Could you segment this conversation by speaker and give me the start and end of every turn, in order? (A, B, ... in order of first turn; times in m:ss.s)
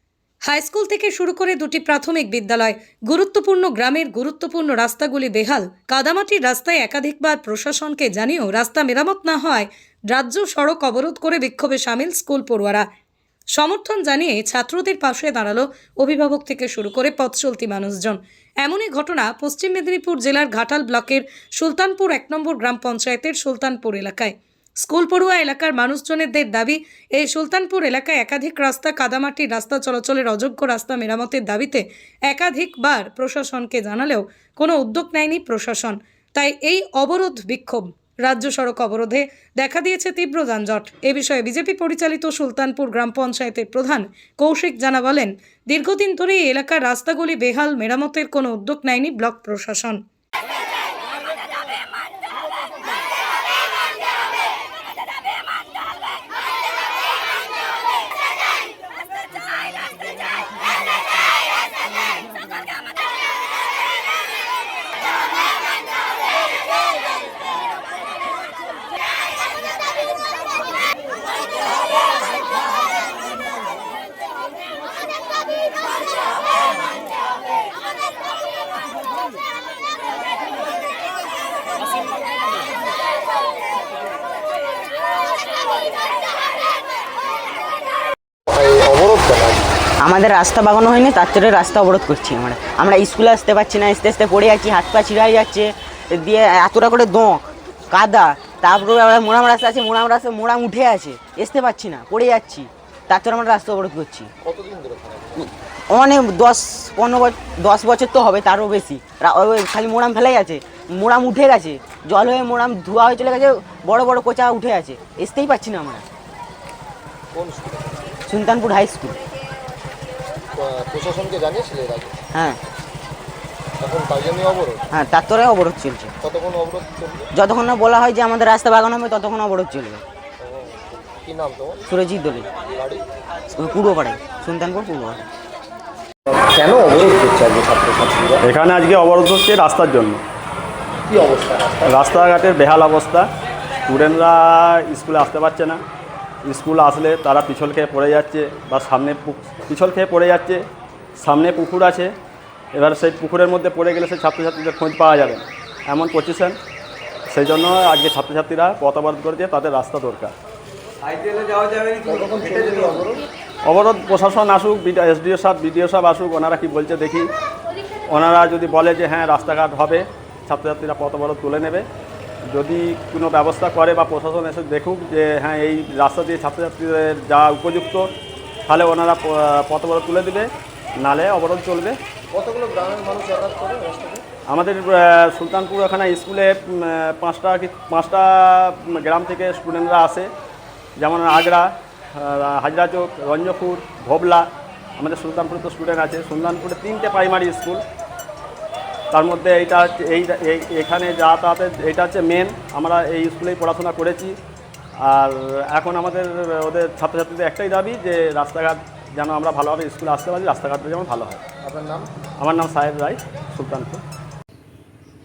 0:00.4-0:12.9 A
0:13.6-0:50.0 A
1:28.5-1:29.7 B
1:30.0-1:44.3 C
1:44.4-1:45.5 B
1:45.9-1:56.1 C
1:57.3-1:58.1 B
1:58.3-1:59.2 C
2:00.5-2:02.2 B
2:02.3-2:02.6 C
2:03.8-2:04.8 B
2:04.9-2:06.1 C
2:06.2-2:07.3 B
2:07.3-2:10.0 C
2:10.4-2:11.8 B
2:11.9-2:12.5 C
2:12.8-2:13.0 B
2:13.5-2:15.2 C
2:16.3-2:18.4 B
2:18.4-2:20.2 D
2:21.1-2:22.0 B
2:21.8-2:23.3 D
2:23.9-2:25.8 D
2:26.5-2:30.6 D
2:31.2-2:32.1 D
2:32.8-2:36.6 D
2:37.3-2:40.3 D
2:42.0-2:43.2 B
2:43.6-2:47.3 D
2:48.1-2:51.9 D
2:52.5-2:58.1 D
2:58.7-3:02.0 D
3:02.3-3:04.2 B
3:04.5-3:10.3 D
3:11.0-3:17.8 D
3:19.1-3:24.4 D
3:25.0-3:31.4 D
3:31.6-3:32.1 B
3:32.4-3:34.0 D